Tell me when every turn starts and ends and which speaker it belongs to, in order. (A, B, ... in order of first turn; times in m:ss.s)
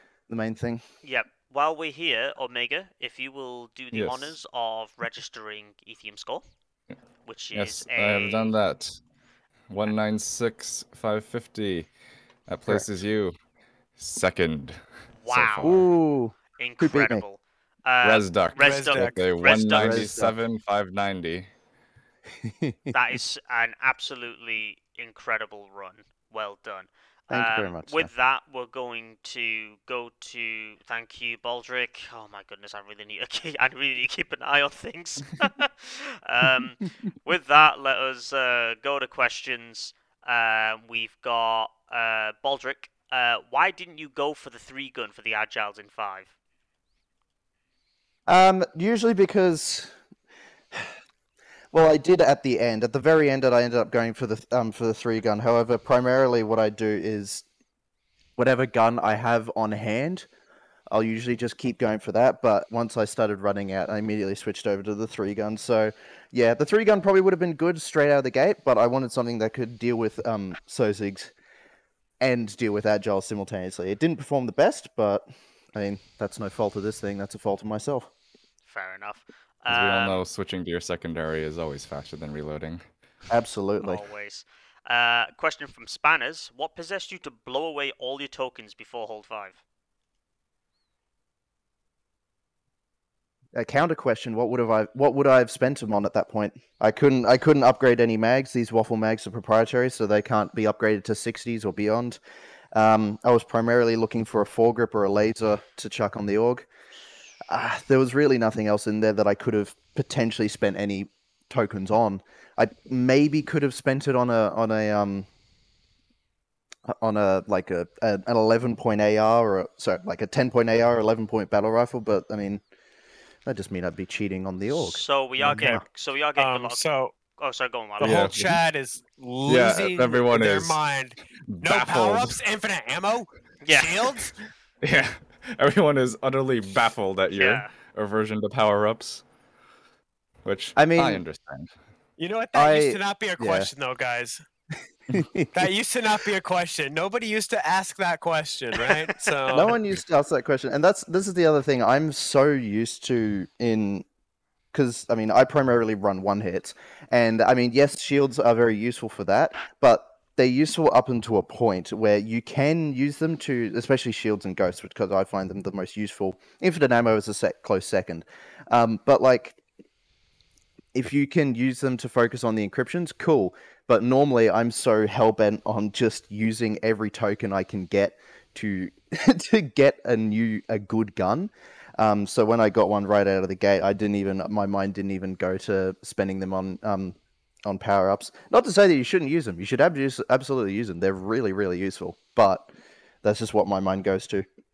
0:00.3-0:00.8 A
0:01.0-0:06.4 B
0:03.9-0:04.3 C
0:07.2-0:08.5 B
0:07.5-0:09.0 C
0:09.7-0:11.9 C
0:12.5-0:13.4 C
0:14.0-0:15.9 C
0:15.1-0:15.8 B
0:15.6-0:17.2 A
0:16.6-0:20.2 B
0:18.0-0:21.5 C
0:18.6-0:19.2 D
0:19.7-0:20.4 A
0:22.4-0:22.9 A
0:22.9-0:46.3 B
0:27.3-0:28.1 A
0:48.3-0:49.9 A
0:51.7-0:57.4 A
0:58.4-1:00.3 A
1:00.9-1:11.3 A
1:12.2-1:18.1 A
1:18.6-1:20.2 B
1:19.7-1:22.8 C
1:23.3-1:24.0 A
1:23.8-1:29.6 B
1:33.5-1:42.2 A
1:42.7-1:46.7 A
1:47.5-1:55.3 A
1:56.9-2:02.6 A
2:03.4-2:05.8 A
2:04.7-2:06.8 B
2:06.4-2:07.1 D
2:07.4-2:08.2 B
2:08.0-2:14.3 D
2:08.0-2:08.6 C
2:09.4-2:10.8 C
2:11.5-2:12.4 C
2:13.6-2:14.0 B
2:14.8-2:19.2 C
2:17.3-2:17.7 B
2:20.4-2:21.8 C
2:20.7-2:21.2 A
2:22.2-2:24.4 D
2:22.5-2:23.7 A
2:25.1-2:25.5 A
2:25.5-2:29.8 D
2:29.5-2:34.0 A
2:34.7-2:49.6 A
2:50.9-3:14.4 A